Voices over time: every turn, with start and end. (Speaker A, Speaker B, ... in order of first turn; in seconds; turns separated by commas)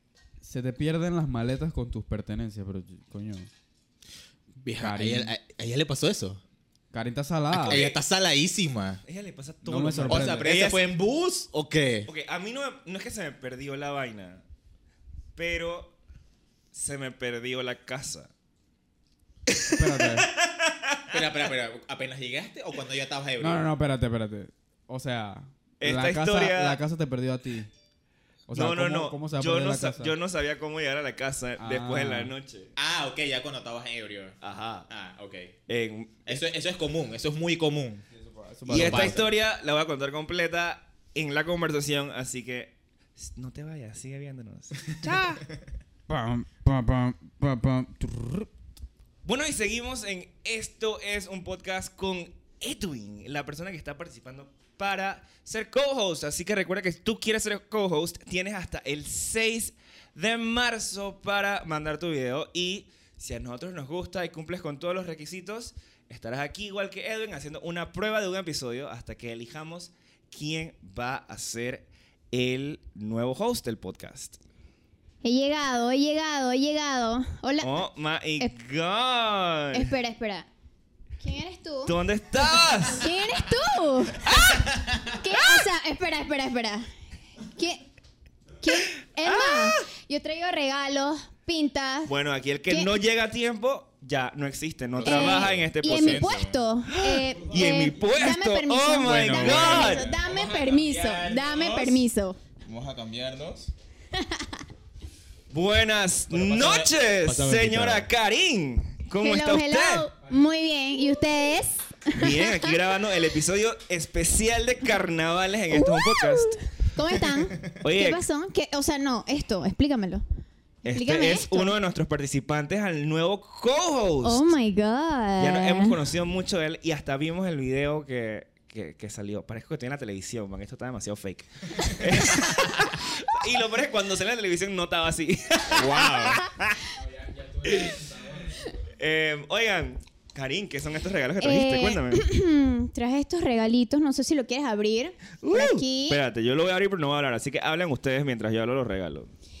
Speaker A: 0.4-3.5, Speaker B: 4.6-6.4, Speaker A: 4.7-5.3, Speaker A: 6.9-7.8, Speaker B: 7.5-9.0, Speaker C: 7.5-8.0, Speaker C: 9.0-10.8, Speaker A: 9.6-10.5, Speaker B: 10.1-12.1, Speaker C: 12.1-14.4, Speaker C: 15.3-15.9, Speaker C: 16.7-18.3, Speaker A: 19.7-20.3, Speaker C: 19.8-21.2, Speaker B: 21.1-23.6, Speaker A: 23.4-27.7, Speaker C: 25.8-26.8, Speaker A: 28.5-30.1, Speaker C: 28.5-32.7, Speaker A: 31.6-32.3, Speaker B: 32.8-34.4, Speaker C: 34.4-34.9, Speaker B: 34.9-35.5, Speaker C: 35.7-36.4, Speaker B: 36.2-38.0, Speaker A: 38.1-39.2, Speaker B: 38.7-39.3, Speaker C: 38.7-45.4, Speaker A: 46.1-48.5, Speaker C: 49.2-74.4, Speaker D: 75.2-77.8, Speaker C: 77.6-79.9, Speaker D: 79.7-80.5, Speaker D: 81.2-82.0, Speaker C: 81.8-83.1, Speaker D: 82.8-84.3, Speaker C: 84.2-84.7, Speaker B: 84.7-85.0, Speaker D: 85.2-86.9, Speaker D: 87.5-87.8, Speaker D: 88.6-92.1, Speaker C: 89.2-89.8, Speaker C: 92.1-96.3, Speaker B: 94.9-96.6, Speaker D: 95.0-102.4, Speaker C: 96.9-100.1, Speaker B: 99.0-102.0, Speaker B: 102.7-103.7, Speaker D: 104.2-104.5, Speaker C: 105.5-110.1, Speaker B: 106.3-108.0, Speaker D: 109.2-112.7, Speaker C: 112.1-116.6, Speaker D: 115.7-120.2, Speaker C: 117.8-118.2, Speaker C: 120.8-124.5, Speaker D: 120.9-121.7, Speaker D: 124.2-126.0, Speaker C: 125.4-136.8, Speaker B: 135.7-136.4, Speaker A: 137.0-138.7, Speaker C: 137.6-138.1, Speaker C: 138.9-142.2, Speaker D: 141.4-146.2, Speaker C: 145.4-149.3